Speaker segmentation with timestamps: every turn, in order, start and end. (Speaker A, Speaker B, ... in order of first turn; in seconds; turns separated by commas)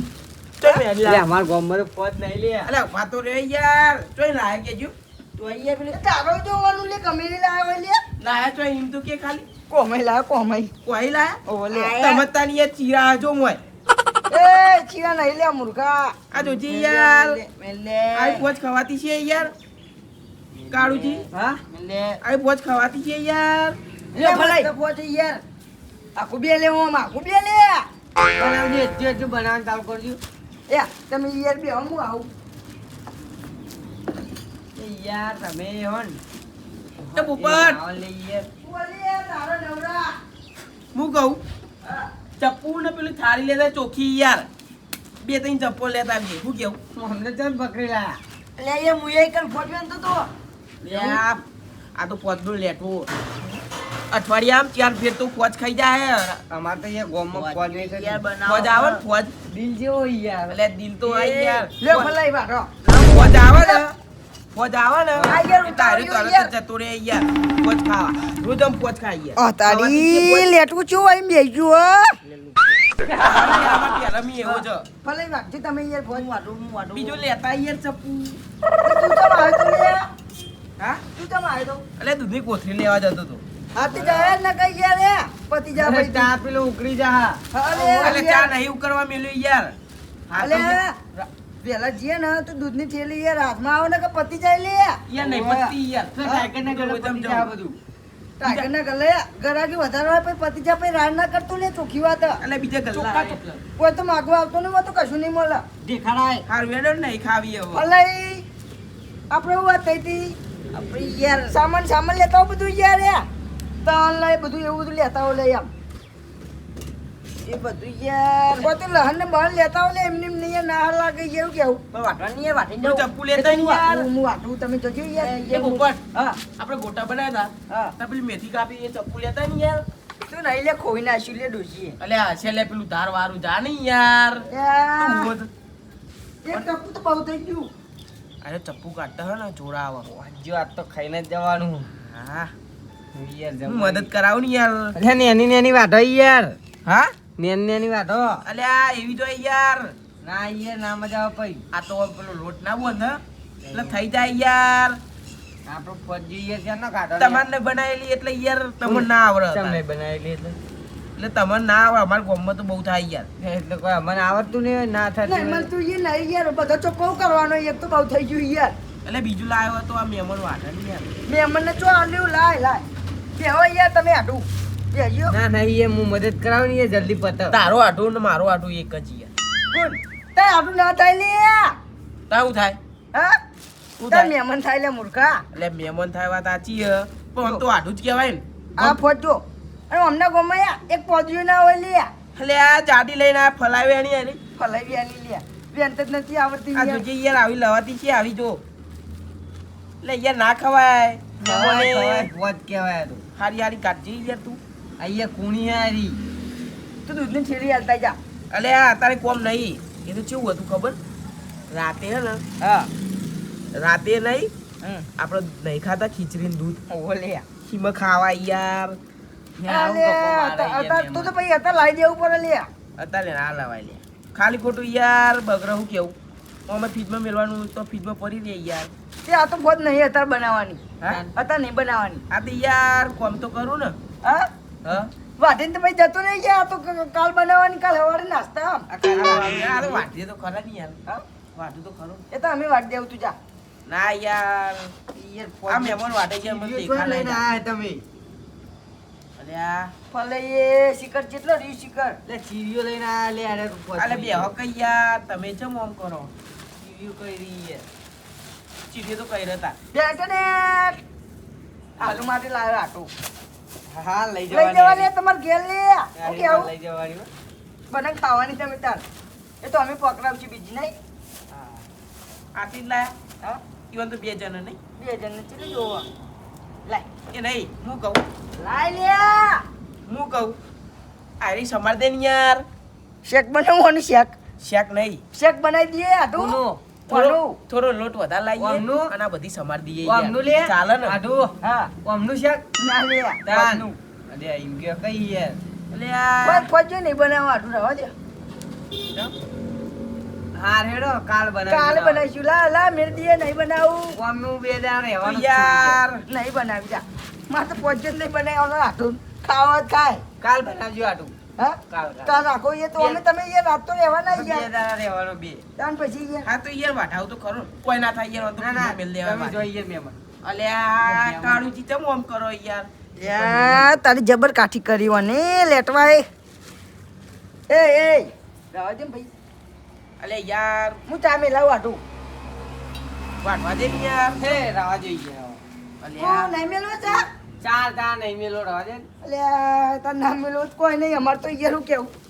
Speaker A: 0.6-1.2, Speaker B: 1.0-2.7, Speaker A: 2.6-4.9, Speaker C: 5.4-8.0, Speaker A: 8.2-9.5, Speaker C: 9.7-10.7, Speaker A: 10.8-13.6, Speaker C: 11.5-12.3, Speaker C: 14.3-16.2, Speaker A: 16.3-17.4, Speaker C: 16.8-18.4, Speaker A: 18.1-19.5, Speaker B: 20.6-21.6, Speaker A: 20.7-21.3, Speaker C: 21.7-22.1, Speaker A: 22.2-23.8, Speaker B: 24.1-24.7, Speaker C: 24.2-25.4, Speaker C: 26.2-27.9, Speaker B: 28.4-30.2, Speaker C: 30.7-32.3, Speaker B: 34.8-36.2, Speaker B: 37.0-38.5, Speaker A: 37.1-37.8, Speaker C: 38.6-40.2, Speaker A: 40.9-41.4, Speaker A: 42.4-44.5, Speaker A: 45.2-46.8, Speaker B: 47.0-48.2, Speaker C: 48.6-50.3, Speaker A: 50.8-51.4, Speaker A: 52.0-53.1, Speaker A: 54.1-56.4, Speaker B: 56.5-58.3, Speaker C: 57.8-59.0, Speaker A: 58.3-59.3, Speaker B: 59.5-60.6, Speaker A: 60.5-62.1, Speaker B: 61.2-61.6, Speaker C: 61.8-63.8, Speaker A: 63.0-64.0, Speaker A: 64.5-70.5, Speaker C: 65.3-66.5, Speaker C: 69.4-72.2, Speaker A: 72.2-72.6, Speaker A: 73.1-74.9, Speaker C: 75.0-77.1, Speaker A: 76.9-78.4, Speaker C: 78.8-80.1, Speaker C: 81.2-81.8, Speaker A: 82.0-83.4, Speaker C: 83.8-86.3, Speaker B: 83.9-84.4, Speaker B: 85.8-87.4, Speaker C: 87.5-88.5, Speaker A: 87.7-89.8, Speaker A: 90.3-90.8, Speaker C: 90.4-95.0, Speaker A: 95.1-97.5, Speaker B: 95.2-97.8, Speaker C: 98.4-102.4, Speaker A: 102.4-103.6, Speaker C: 103.8-105.6, Speaker B: 105.8-106.5, Speaker A: 106.5-107.8, Speaker C: 107.7-108.5, Speaker C: 109.3-110.4, Speaker B: 110.7-111.4, Speaker C: 111.3-113.3, Speaker C: 113.8-115.7, Speaker C: 117.5-126.4, Speaker A: 122.8-124.1, Speaker A: 125.2-126.0, Speaker A: 126.6-129.9, Speaker C: 130.3-132.0, Speaker A: 132.0-134.5, Speaker C: 134.5-135.3, Speaker A: 135.0-135.5, Speaker C: 136.4-137.7, Speaker A: 138.4-140.1, Speaker B: 140.1-141.9, Speaker A: 142.0-142.5, Speaker B: 143.2-144.1, Speaker A: 143.7-145.0, Speaker B: 144.9-146.6, Speaker A: 146.9-147.2, Speaker B: 147.4-148.4, Speaker A: 148.4-150.0, Speaker B: 150.2-151.6, Speaker A: 151.7-153.2, Speaker B: 153.7-154.0, Speaker A: 153.7-155.0, Speaker B: 155.7-157.5, Speaker A: 157.2-159.8, Speaker B: 158.8-160.6, Speaker A: 161.2-163.3, Speaker B: 163.4-165.7, Speaker C: 165.2-168.8, Speaker A: 169.1-171.1, Speaker C: 171.3-172.8, Speaker C: 173.4-175.3, Speaker B: 175.3-177.6, Speaker A: 177.5-179.3, Speaker C: 179.7-181.8, Speaker A: 182.3-182.8, Speaker C: 183.1-183.4, Speaker A: 184.0-184.3, Speaker C: 184.1-185.4, Speaker A: 185.5-189.0, Speaker C: 188.8-192.1, Speaker A: 192.3-194.4, Speaker C: 194.6-197.0, Speaker A: 196.7-198.6, Speaker A: 200.0-202.3, Speaker B: 201.4-203.2, Speaker A: 203.4-204.6, Speaker B: 205.0-206.2, Speaker C: 207.1-208.2, Speaker A: 208.5-211.0, Speaker A: 211.7-212.4, Speaker C: 212.6-212.9, Speaker A: 213.7-214.5, Speaker A: 215.2-216.8, Speaker C: 216.9-217.4, Speaker A: 217.7-219.0, Speaker B: 219.6-221.3, Speaker C: 219.7-222.7, Speaker A: 223.0-226.1, Speaker A: 226.7-228.9, Speaker C: 229.2-230.8, Speaker C: 231.3-232.2, Speaker A: 232.3-234.0, Speaker C: 235.4-238.9, Speaker B: 238.9-240.1, Speaker A: 239.1-241.0, Speaker A: 241.6-242.2, Speaker C: 242.3-243.4, Speaker A: 243.9-244.9, Speaker B: 245.1-248.0, Speaker A: 245.7-247.4, Speaker A: 249.4-249.9, Speaker C: 250.1-252.2, Speaker B: 252.3-254.5, Speaker A: 254.0-256.3, Speaker B: 256.8-257.9, Speaker A: 258.9-259.8, Speaker C: 259.9-261.0, Speaker C: 262.0-263.1, Speaker B: 263.9-265.1, Speaker C: 264.5-266.7, Speaker B: 266.2-267.3, Speaker C: 267.9-269.0, Speaker C: 269.6-270.9, Speaker A: 272.6-273.1, Speaker A: 273.9-274.8, Speaker C: 275.0-276.1, Speaker A: 277.3-278.2, Speaker C: 278.6-279.6, Speaker A: 280.1-280.6, Speaker A: 281.4-282.6, Speaker C: 283.2-284.4, Speaker A: 284.6-285.2, Speaker C: 285.3-287.6, Speaker B: 286.4-286.8, Speaker A: 287.1-291.2, Speaker B: 288.6-289.1, Speaker B: 290.0-292.6, Speaker C: 291.6-291.9, Speaker C: 292.8-293.7, Speaker B: 293.4-295.6, Speaker A: 295.9-296.7, Speaker C: 296.4-298.1, Speaker B: 300.6-302.2, Speaker C: 301.7-304.2, Speaker B: 304.1-306.0, Speaker A: 305.2-306.2, Speaker C: 306.3-310.2, Speaker B: 310.4-311.3, Speaker C: 311.6-314.7, Speaker B: 311.9-312.4, Speaker B: 314.3-315.6, Speaker C: 315.8-316.5, Speaker A: 316.4-319.6, Speaker B: 318.6-320.2, Speaker A: 320.4-322.9, Speaker B: 321.1-321.6, Speaker C: 323.2-326.2, Speaker B: 323.3-323.9, Speaker C: 327.7-329.3, Speaker A: 330.2-331.0, Speaker C: 331.1-332.0, Speaker A: 333.4-334.6, Speaker B: 334.4-335.6, Speaker A: 336.0-336.5, Speaker C: 336.2-337.2, Speaker B: 337.6-339.1, Speaker C: 339.2-342.1